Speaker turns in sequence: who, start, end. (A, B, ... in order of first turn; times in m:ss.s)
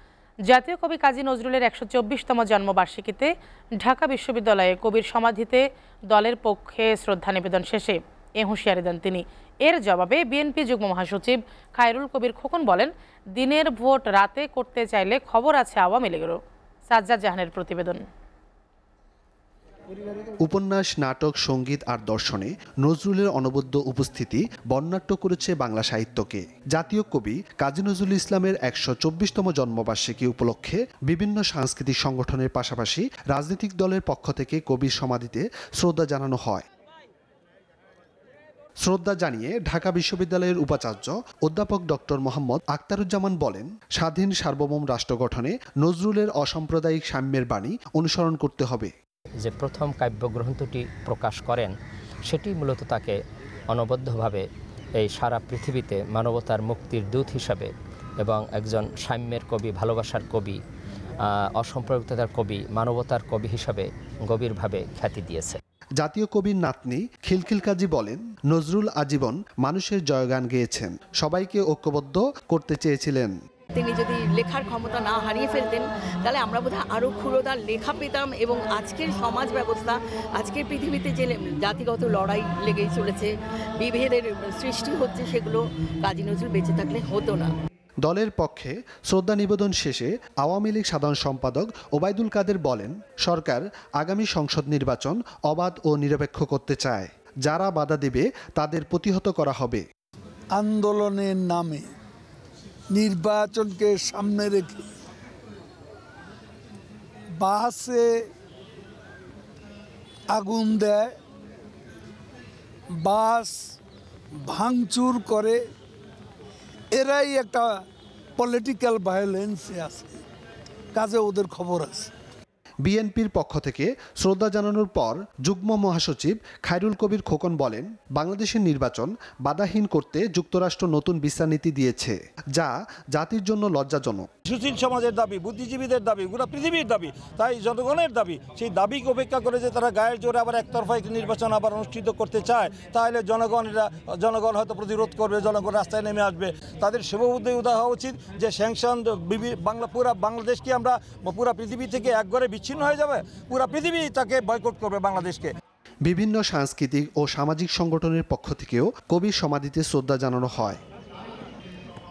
0:00.5-0:16.4 A
0:16.9-0:18.0 A
0:20.4-0:36.6 B
0:38.8-0:48.9 B
0:49.4-0:51.7 C
0:52.3-0:53.2 C
0:53.7-0:54.4 C
0:55.0-1:00.6 C
1:01.2-1:05.6 C
1:06.0-1:13.3 B
1:13.7-1:27.5 D
1:28.0-1:39.8 B
1:40.5-1:41.9 E
1:42.9-1:44.9 E
1:47.4-1:48.2 E
1:50.3-1:51.1 E
1:52.9-1:53.7 E
1:54.4-1:55.6 E
1:56.9-1:57.8 E
1:58.4-2:00.2 E
2:00.9-2:02.1 E
2:02.8-2:14.3 B
2:14.4-2:35.5 F
2:36.0-2:40.8 B